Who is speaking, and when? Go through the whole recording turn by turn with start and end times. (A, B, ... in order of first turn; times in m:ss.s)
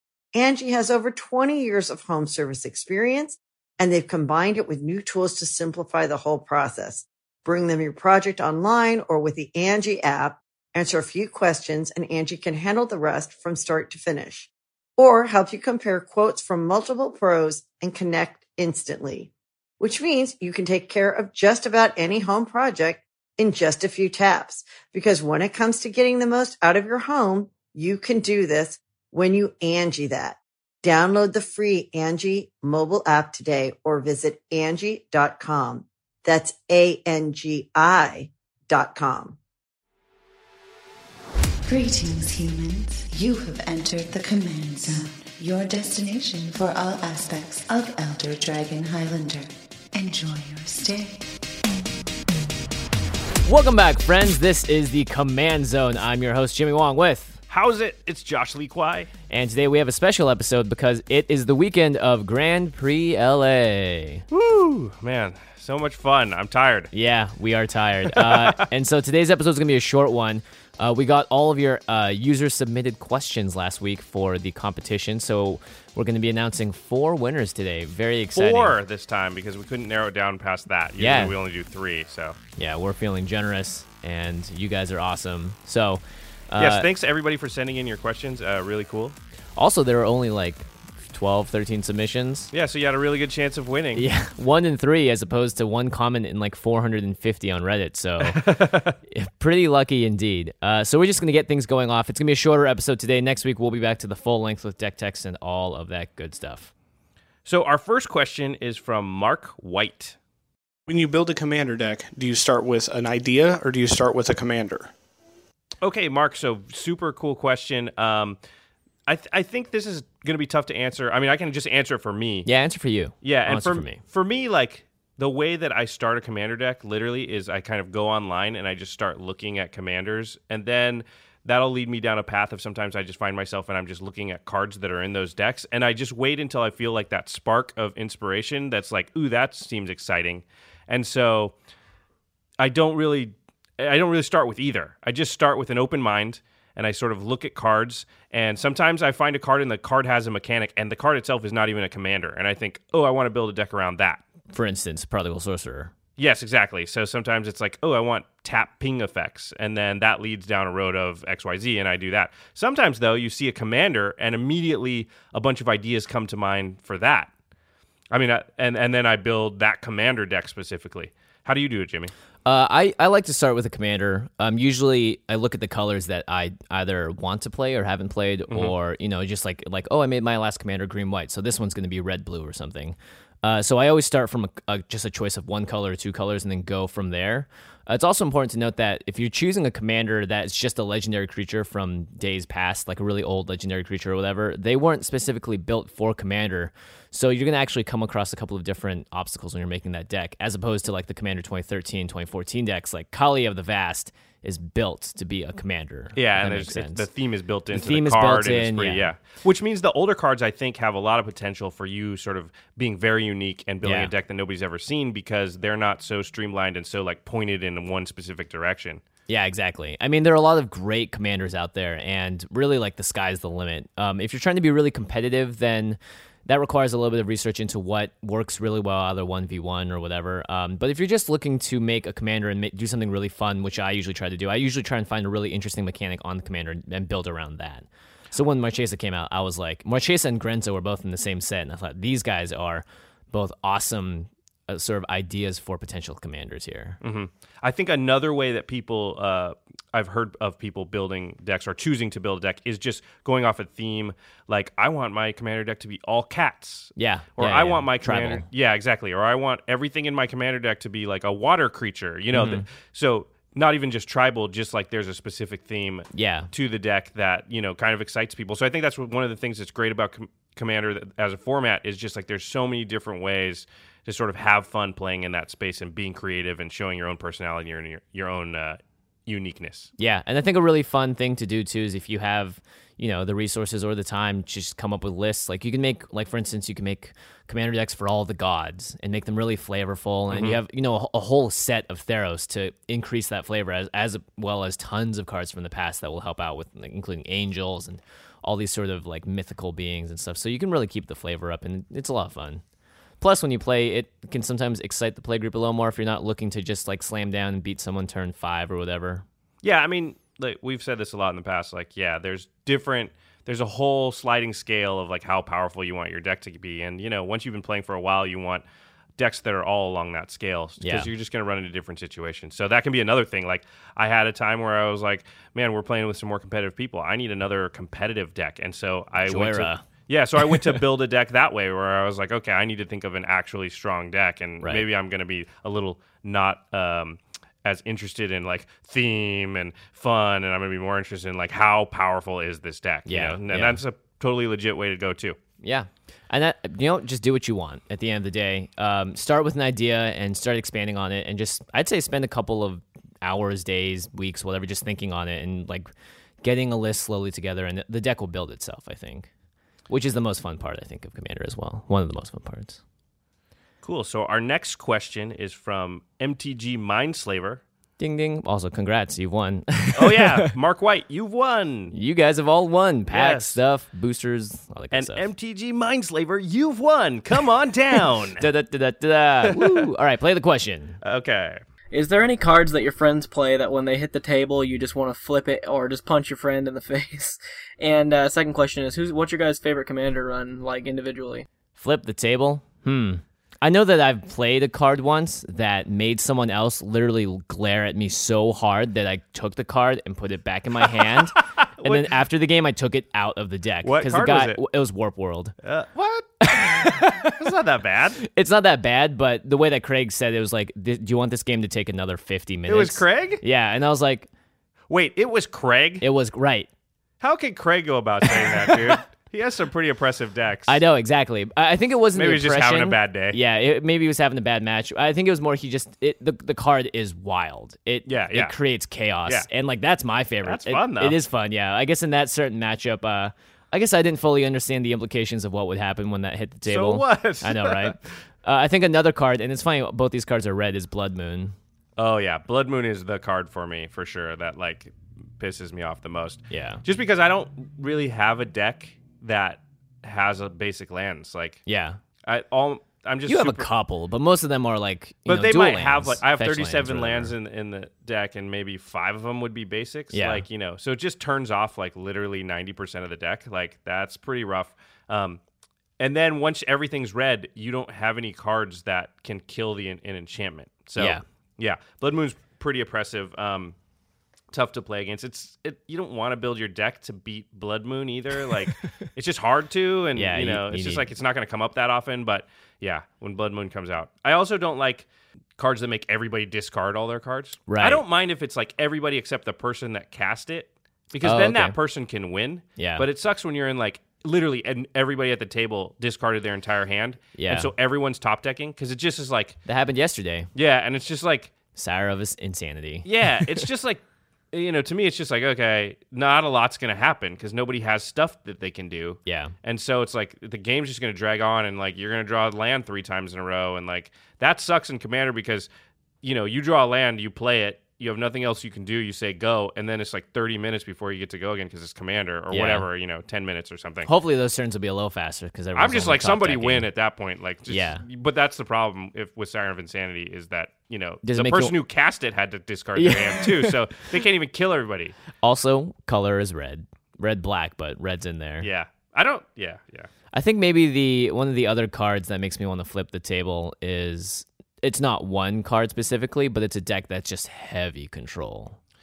0:00.3-0:39.4 A
0:41.6-0:51.3 B
0:53.4-0:57.4 C
0:57.5-0:59.1 D
0:59.3-1:04.2 C
1:04.3-1:06.9 D
1:06.9-1:18.8 C
1:08.1-1:08.7 D
1:18.3-1:22.4 D
1:21.0-1:21.4 C
1:22.6-1:26.9 C
1:26.6-1:29.2 D
1:29.6-1:32.5 C
1:32.5-1:34.1 D
1:33.9-1:46.7 C
1:38.2-1:39.0 D
1:47.4-1:50.2 D
1:50.9-1:54.9 E
1:55.8-1:58.4 D
1:59.1-2:02.5 D
2:02.4-2:04.0 C
2:03.2-2:21.5 D
2:22.6-2:34.2 D
2:34.5-2:35.9 C
2:36.2-2:47.3 D
2:48.1-2:52.1 D
2:52.4-3:27.1 C
2:58.5-2:58.7 D
3:26.1-3:39.0 D
3:27.7-3:29.0 C
3:33.8-3:34.1 C
3:39.3-4:07.0 C
4:07.0-4:39.9 D
4:17.0-4:18.5 C
4:22.3-4:22.6 C
4:26.1-4:26.5 C
4:40.0-5:02.6 C
4:50.3-4:50.6 D
5:03.2-5:09.2 C
5:09.6-5:18.6 D
5:19.2-5:45.4 D
5:20.8-5:21.1 C
5:29.2-5:29.8 C
5:30.4-5:30.8 C
5:34.6-5:34.9 C
5:43.1-5:43.8 C
5:45.6-5:55.9 C
5:56.4-5:59.3 C
5:59.9-6:02.8 C
6:03.8-6:07.6 D
6:08.0-6:10.5 C
6:09.9-6:11.9 D
6:11.9-6:15.2 C
6:13.1-6:13.6 D
6:14.9-6:18.4 D
6:18.4-6:21.0 C
6:19.4-6:19.9 D
6:21.0-6:21.6 D
6:21.9-6:31.5 F
6:31.8-6:45.5 C
6:41.0-6:42.2 D
6:43.8-6:44.6 D
6:45.6-6:48.2 D
6:46.4-6:47.3 C
6:48.2-6:54.3 C
6:52.7-6:53.4 D
6:54.9-6:56.1 D
6:56.0-6:56.7 C
6:57.2-7:00.8 D
6:58.4-6:59.0 C
7:00.7-7:21.6 C
7:02.1-7:03.4 D
7:08.0-7:08.6 D
7:10.4-7:11.2 D
7:16.7-7:18.0 D
7:22.0-7:31.6 D
7:26.5-7:26.8 C
7:31.7-7:32.0 C
7:32.2-7:33.7 D
7:33.3-7:37.4 C
7:35.3-7:45.4 D
7:40.1-7:40.4 C
7:46.0-7:53.8 D
7:51.0-7:51.2 C
7:54.5-8:19.6 D
8:00.2-8:01.0 C
8:07.7-8:08.0 C
8:11.2-8:11.8 C
8:12.8-8:13.0 C
8:17.4-8:17.7 C
8:19.6-8:20.5 C
8:20.6-8:21.5 D
8:21.8-8:23.6 C
8:23.0-8:35.7 D
8:29.2-8:29.5 C
8:36.2-8:44.1 D
8:42.5-8:42.9 C
8:44.1-8:46.9 C
8:45.7-8:55.2 D
8:47.7-8:48.0 C
8:51.2-8:51.8 C
8:53.0-8:53.8 C
8:55.4-8:58.7 C
8:58.6-9:00.1 D
9:00.3-9:08.8 C